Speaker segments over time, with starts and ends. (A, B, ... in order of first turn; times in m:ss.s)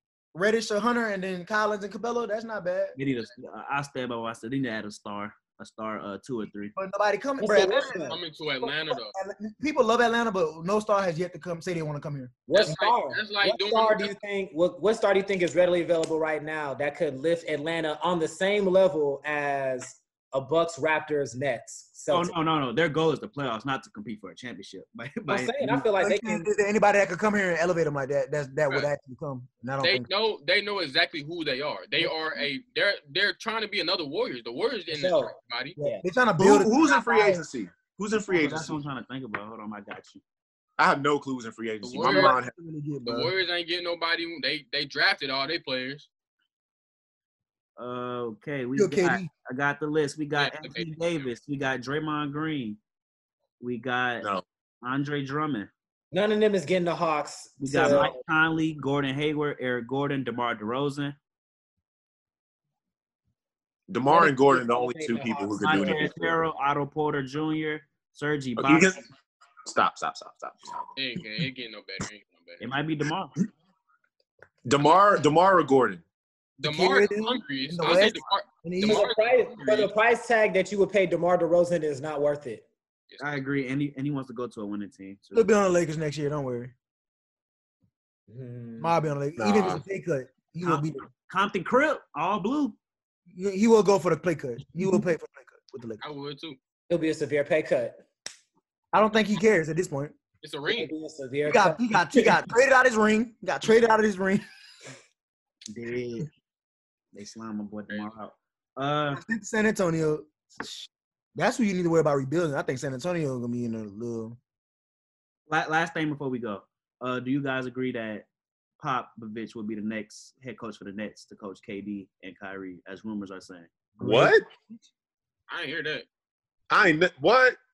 0:00.3-0:03.0 A
0:03.0-0:06.7 B
0:06.8-0:08.0 A
0:07.4-0:08.2 C
0:08.0-0:09.1 D
0:08.6-0:12.5 A
0:12.5-0:22.3 C
0:12.5-0:14.1 D
0:22.1-0:25.9 B
0:25.3-0:26.5 C
0:26.0-0:30.1 A
0:29.8-0:35.8 D
0:34.9-0:36.0 C
0:35.8-0:36.8 A
0:36.4-0:38.8 E
0:36.8-0:37.4 C
0:38.3-0:40.2 B
0:40.8-0:42.5 E
0:41.8-0:42.4 D
0:41.9-0:43.3 A
0:43.0-0:46.1 D
0:47.8-0:52.8 B
0:48.8-0:49.3 A
0:50.4-0:51.3 D
0:53.6-0:54.3 B
0:54.8-0:55.7 B
0:56.1-0:58.2 C
0:57.6-1:01.2 B
1:03.9-1:06.4 E
1:04.0-1:06.2 C
1:05.6-1:09.0 B
1:08.6-1:09.0 E
1:09.6-1:10.9 E
1:11.0-1:12.6 D
1:12.6-1:13.4 B
1:14.6-1:16.0 E
1:16.6-1:19.9 D
1:16.6-1:19.0 A
1:18.8-1:22.6 C
1:23.2-1:25.5 B
1:25.3-1:26.7 A
1:28.3-1:29.0 C
1:28.8-1:31.1 A
1:29.4-1:29.8 E
1:30.6-1:32.8 B
1:33.3-1:36.0 A
1:36.0-1:36.6 D
1:36.9-1:38.0 C
1:38.9-1:40.2 A
1:40.4-1:40.9 D
1:40.7-1:41.8 C
1:41.4-1:44.4 A
1:45.7-1:46.3 B
1:47.1-1:49.2 B
1:47.9-1:48.2 D
1:49.1-1:54.4 A
1:55.5-1:58.2 B
1:58.8-2:03.7 B
2:04.0-2:04.4 A
2:04.0-2:04.4 E
2:05.5-2:06.1 D
2:06.7-2:07.6 E